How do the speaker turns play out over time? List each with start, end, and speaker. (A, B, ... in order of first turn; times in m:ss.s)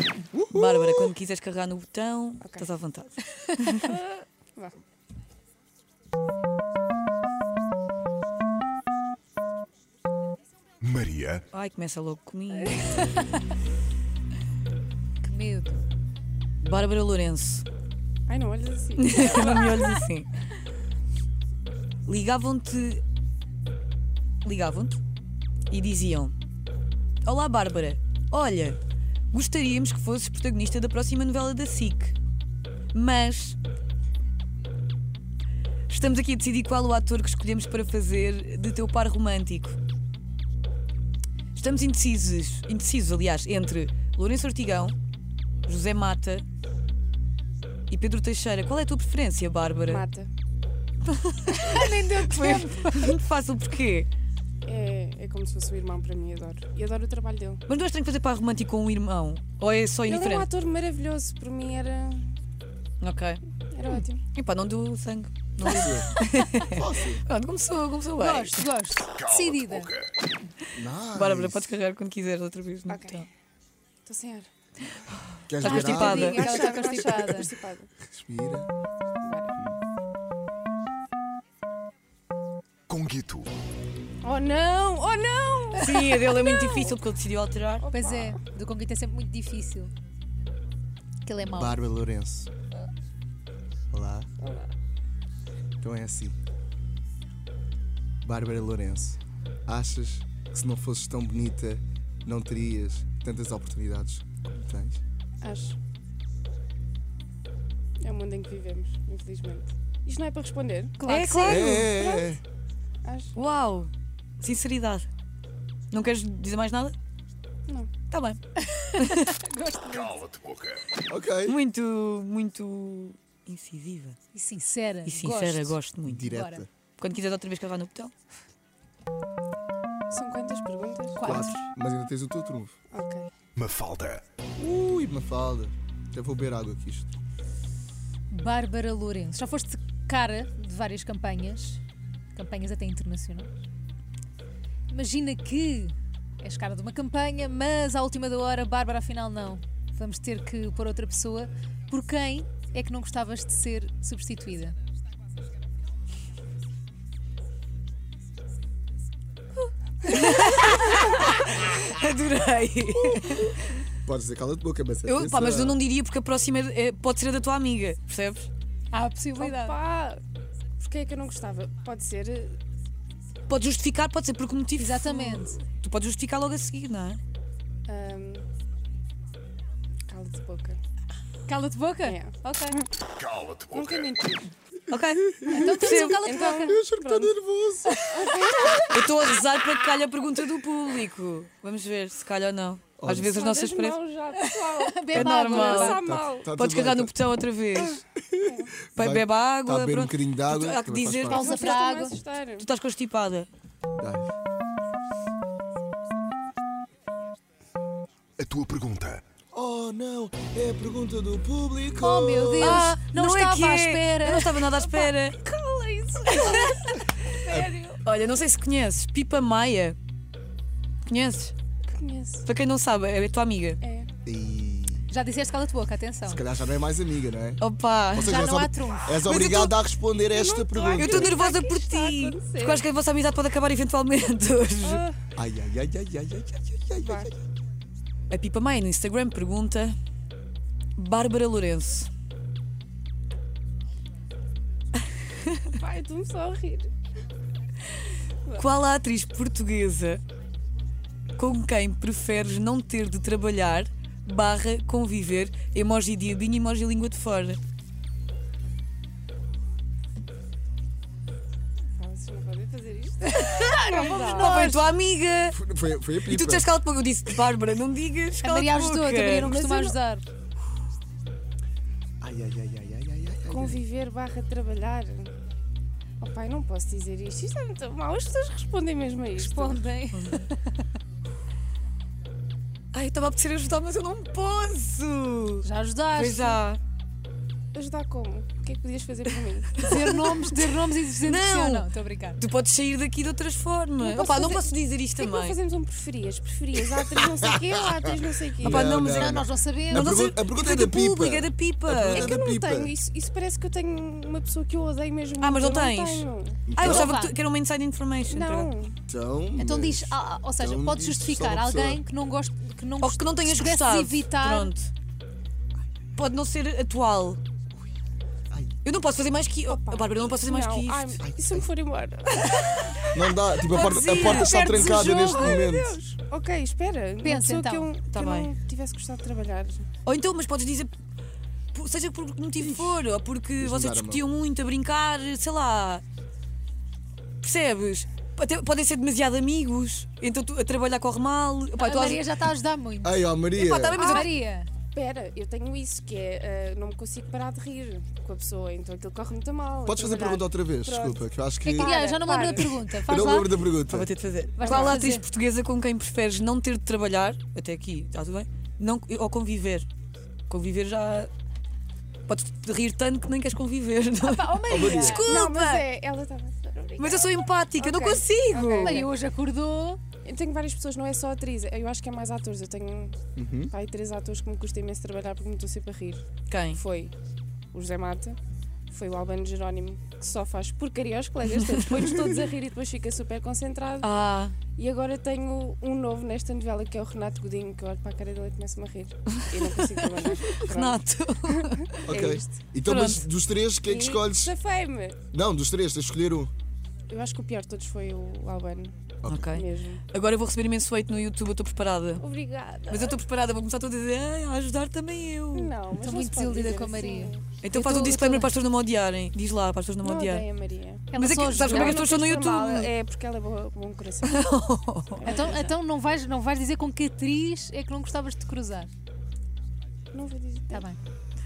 0:00.3-0:01.1 A
0:00.5-0:03.9 B
0:02.4-0:02.7 C
0:03.8-0:04.8 C
0:10.8-0:11.4 D
0:11.5-0:13.1 B
0:15.2-0:15.8 E
0:16.6-0:17.6 B
0:18.3-0:20.0 C
0:19.0-0:20.3 B
0:22.1-0:23.0 B
0:24.4-0:25.0 B
0:25.7-0:26.4 B
0:27.2-0:28.8 B
0:29.3-0:32.2 B
0:32.9-0:33.6 B
0:35.9-0:39.8 B
0:41.6-0:45.0 B
0:45.7-0:46.4 B
0:47.9-0:50.0 B
0:49.8-0:50.3 C
0:51.2-0:54.1 B
0:51.5-0:53.2 E
0:54.6-0:57.6 C
0:57.7-1:00.5 B
1:00.1-1:02.4 C
1:03.0-1:03.4 B
1:03.7-1:04.2 C
1:04.3-1:08.7 B
1:05.6-1:06.1 A
1:06.6-1:07.2 A
1:08.2-1:09.9 E
1:10.8-1:11.8 A
1:11.1-1:13.3 B
1:12.9-1:13.3 C
1:14.1-1:14.5 C
1:15.5-1:16.5 A
1:15.6-1:16.5 B
1:15.6-1:17.5 E
1:16.1-1:17.9 C
1:18.0-1:18.7 A
1:19.2-1:19.6 C
1:22.9-1:23.5 D
1:24.2-1:27.0 C
1:25.8-1:27.9 B
1:27.8-1:28.4 C
1:27.9-1:29.9 E
1:31.2-1:31.8 E
1:31.4-1:32.5 A
1:33.9-1:34.3 A
1:34.4-1:34.7 C
1:35.8-1:36.4 A
1:38.2-1:45.0 A
1:45.4-1:45.8 C
1:48.0-1:51.0 C
1:51.0-1:51.7 E
1:51.1-1:52.0 B
1:51.5-1:52.4 A
1:51.7-1:52.3 C
1:53.0-1:53.3 C
1:53.4-1:55.1 B
1:55.9-1:57.0 B
1:57.7-1:57.9 C
1:58.1-1:58.4 B
1:59.0-1:59.3 B
1:59.1-2:00.2 E
2:00.2-2:00.8 D
2:01.1-2:01.6 A
2:01.5-2:04.2 B
2:04.3-2:05.8 E
2:05.1-2:06.3 B
2:06.0-2:06.7 A
2:06.3-2:06.7 E
2:07.0-2:08.1 B
2:10.1-2:11.4 C
2:11.2-2:11.7 E
2:11.2-2:12.8 A
2:12.9-2:13.3 C
2:13.6-2:14.2 D
2:14.6-2:17.1 A
2:18.3-2:21.8 E
2:22.3-2:23.5 E
2:24.9-2:34.8 E
2:40.0-2:43.7 B
2:44.0-2:45.8 A
2:45.1-2:48.5 B
2:48.9-2:49.8 E
2:49.4-2:50.2 C
2:50.8-2:52.6 C
2:53.5-2:57.2 B
2:54.8-2:55.6 E
2:57.9-2:58.4 C
3:00.1-3:00.8 C
3:01.5-3:02.8 E
3:02.0-3:02.8 C
3:03.2-3:03.9 D
3:03.7-3:04.5 C
3:04.9-3:06.5 B
3:05.4-3:05.7 A
3:05.5-3:06.8 E
3:06.0-3:07.3 C
3:06.5-3:08.1 A
3:08.1-3:08.9 C
3:08.9-3:14.0 B
3:13.0-3:13.3 A
3:13.2-3:16.5 C
3:14.3-3:16.0 E
3:15.1-3:18.0 B
3:16.0-3:17.1 A
3:18.2-3:21.4 A
3:18.4-3:18.8 C
3:19.0-3:21.8 B
3:21.3-3:22.2 E
3:21.3-3:22.7 C
3:22.6-3:23.5 B
3:24.0-3:24.3 A
3:28.4-3:29.2 D
3:29.5-3:32.8 A
3:31.9-3:34.6 E
3:32.6-3:35.4 B
3:34.8-3:38.0 C
3:36.3-3:36.9 B
3:37.5-3:37.7 A
3:38.0-3:40.0 B
3:41.1-3:41.5 B
3:41.9-3:42.4 C
3:42.4-3:43.8 B
3:43.8-3:44.1 C
3:44.3-3:45.1 A
3:45.1-3:46.4 E
3:46.2-3:47.6 A
3:47.6-3:48.5 B
3:48.1-3:51.4 A
3:48.2-3:49.2 E
3:49.2-3:49.8 B
3:50.3-3:52.8 C
3:50.9-3:55.0 B
3:54.8-3:55.1 C
3:55.4-3:57.3 A
3:57.0-3:57.3 C
3:58.3-4:00.0 B
4:01.0-4:02.1 B
4:05.7-4:06.9 C
4:08.6-4:10.2 B
4:11.4-4:17.6 B
4:22.0-4:24.8 C
4:23.4-4:24.8 E
4:23.4-4:25.6 B
4:25.5-4:26.7 A
4:26.2-4:29.5 B
4:28.4-4:30.3 E
4:29.4-4:30.0 C
4:32.2-4:33.8 A
4:33.5-4:35.3 C
4:36.2-4:39.9 C
4:39.4-4:40.5 E
4:40.1-4:40.5 B
4:42.9-4:46.8 B
4:45.6-4:46.6 E
4:47.7-4:50.2 C
4:49.8-4:52.4 E
4:49.8-4:50.7 B
4:51.2-4:55.6 B
4:54.0-4:59.0 C
4:58.6-5:02.3 B
4:58.6-5:02.9 A
4:59.1-5:00.2 E
5:02.0-5:06.7 C
5:05.4-5:08.7 B
5:06.7-5:07.2 A
5:06.8-5:07.4 E
5:08.3-5:09.0 C
5:09.1-5:12.0 A
5:09.6-5:14.7 E
5:13.0-5:14.9 B
5:16.2-5:17.4 B
5:18.5-5:18.8 A
5:18.8-5:21.2 B
5:19.7-5:23.1 C
5:21.2-5:21.7 A
5:22.5-5:23.0 B
5:23.1-5:26.0 A
5:23.6-5:24.7 B
5:24.1-5:25.6 E
5:24.6-5:29.9 C
5:27.2-5:27.9 E
5:28.1-5:28.5 B
5:30.0-5:30.9 B
5:31.7-5:36.0 B
5:32.6-5:33.0 A
5:33.6-5:34.2 A
5:37.4-5:42.3 B
5:41.8-5:43.2 E
5:43.0-5:44.3 A
5:43.6-5:44.3 B
5:43.9-5:44.7 E
5:44.9-5:52.8 C
5:49.9-5:52.0 A
5:51.7-5:53.6 E
5:53.0-5:54.1 A
5:53.9-5:59.9 B
5:54.6-5:55.3 E
5:54.6-5:55.0 C
6:00.5-6:01.3 B
6:02.3-6:05.9 B
6:04.2-6:05.3 E
6:04.7-6:05.3 A
6:05.2-6:09.1 C
6:07.0-6:09.1 B
6:08.8-6:10.0 E
6:10.2-6:17.1 C
6:13.4-6:13.7 A
6:16.5-6:16.8 B
6:17.7-6:18.4 C
6:18.9-6:24.1 C
6:21.5-6:22.4 B
6:24.0-6:24.6 B
6:24.7-6:32.6 C
6:29.3-6:32.0 B
6:32.1-6:34.5 A
6:32.8-6:33.3 B
6:33.8-6:35.2 C
6:35.3-6:36.5 A
6:37.1-6:40.0 C
6:39.2-6:39.5 A
6:39.3-6:42.2 B
6:42.2-6:43.2 C
6:42.9-6:45.8 B
6:45.5-6:47.5 C
6:45.9-6:48.5 E
6:47.6-6:50.5 B
6:50.0-6:54.5 C
6:51.1-6:52.0 E
6:51.1-6:52.9 B
6:54.2-6:55.7 B
6:55.2-6:55.8 C
6:55.2-6:58.9 E
7:00.1-7:00.9 C
7:00.7-7:01.0 E